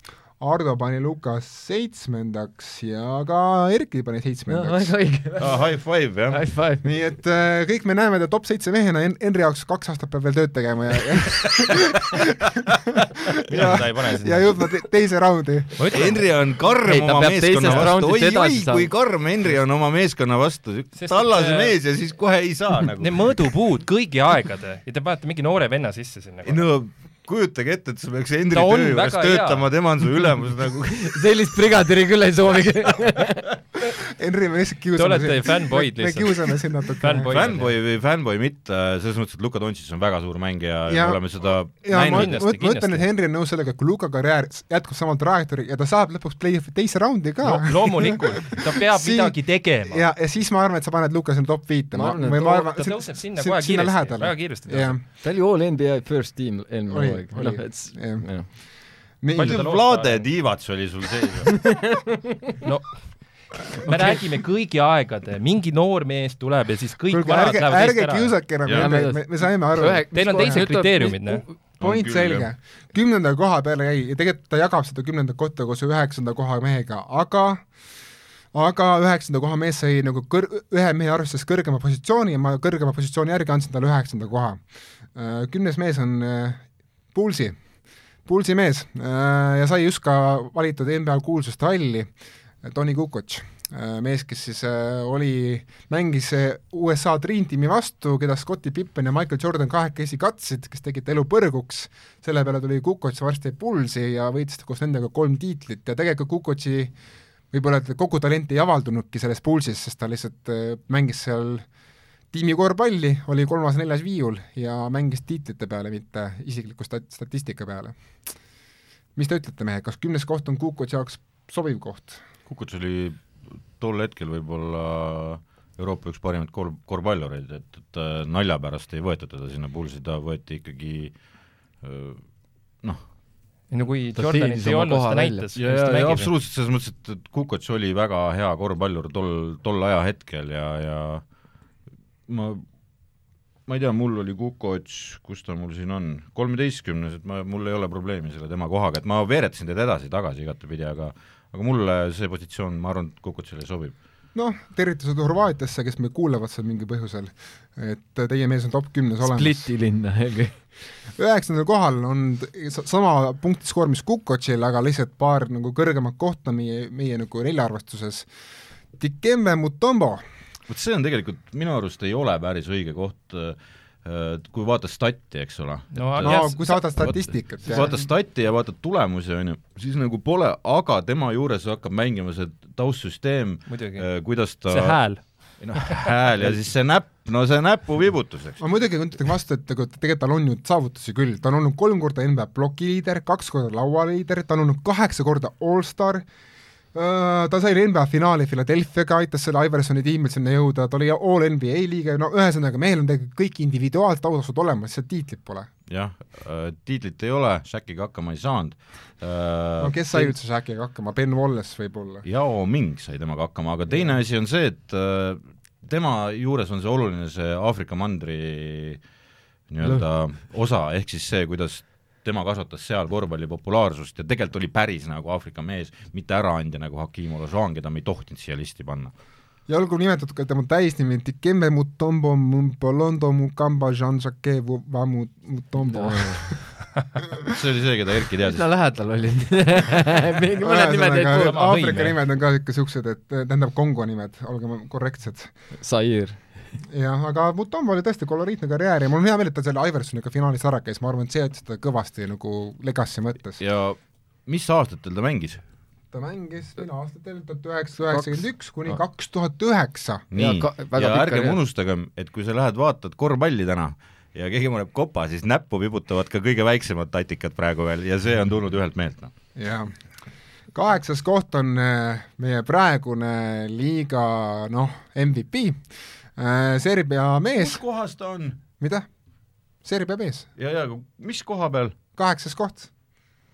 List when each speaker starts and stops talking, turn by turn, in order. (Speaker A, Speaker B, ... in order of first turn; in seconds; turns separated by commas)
Speaker A: 0.4-4.9, Speaker B: 4.5-5.7, Speaker C: 5.4-6.4, Speaker B: 6.3-6.8, Speaker A: 6.8-16.0, Speaker D: 13.4-14.6, Speaker D: 15.8-16.2, Speaker C: 15.9-23.4, Speaker B: 16.8-18.9, Speaker D: 20.9-21.7, Speaker D: 22.9-26.6, Speaker C: 26.4-31.3, Speaker D: 28.5-29.7, Speaker B: 31.0-33.5, Speaker A: 33.8-37.4, Speaker D: 35.0-37.7, Speaker C: 37.2-42.8, Speaker A: 40.9-41.2, Speaker A: 41.8-55.0, Speaker D: 42.0-43.0, Speaker D: 47.4-50.0, Speaker B: 51.9-52.7, Speaker D: 52.5-55.0, Speaker B: 55.2-58.5, Speaker A: 56.9-58.3, Speaker A: 59.2-59.6, Speaker D: 59.3-60.3, Speaker C: 59.4-61.7, Speaker B: 61.6-62.2, Speaker D: 62.6-63.0, Speaker D: 63.6-68.3, Speaker A: 63.8-64.2, Speaker A: 67.1-70.7, Speaker C: 68.6-68.9, Speaker B: 68.7-71.5, Speaker D: 70.1-71.4, Speaker C: 71.8-72.5, Speaker A: 71.8-77.6, Speaker A: 78.5-84.6, Speaker A: 85.1-87.6, Speaker A: 88.2-92.1, Speaker A: 92.6-106.9, Speaker A: 107.5-111.6, Speaker A: 112.3-118.0, Speaker A: 119.2-122.2, Speaker C: 122.5-123.2, Speaker C: 123.8-131.1, Speaker C: 131.8-132.2, Speaker D: 133.7-136.3, Speaker B: 134.2-135.5, Speaker C: 135.5-141.2, Speaker C: 142.3-142.6, Speaker C: 143.7-153.9, Speaker A: 154.3-159.7, Speaker B: 159.2-160.5, Speaker A: 161.2-168.3, Speaker A: 169.0-170.2, Speaker C: 170.7-185.0, Speaker D: 175.9-176.8, Speaker A: 176.2-177.9, Speaker D: 183.7-184.1, Speaker D: 184.7-185.2, Speaker C: 185.6-188.6, Speaker D: 185.7-186.1, Speaker A: 188.6-196.2, Speaker A: 196.9-205.7, Speaker C: 205.9-210.2, Speaker A: 209.8-212.2, Speaker C: 212.2-219.0, Speaker C: 219.7-229.1, Speaker A: 229.7-236.6, Speaker B: 235.8-236.5, Speaker C: 237.4-238.6, Speaker B: 238.4-241.7, Speaker A: 240.6-245.5, Speaker D: 241.3-242.2, Speaker B: 245.8-246.5, Speaker A: 246.9-253.6, Speaker C: 253.6-255.6, Speaker A: 256.1-260.2, Speaker B: 258.1-258.9, Speaker C: 260.3-269.3, Speaker B: 260.3-261.6, Speaker A: 269.6-269.9, Speaker A: 270.7-275.8, Speaker A: 276.4-277.8, Speaker C: 277.6-278.6, Speaker A: 278.8-279.1, Speaker A: 279.8-280.5, Speaker C: 280.6-281.9, Speaker A: 282.1-282.9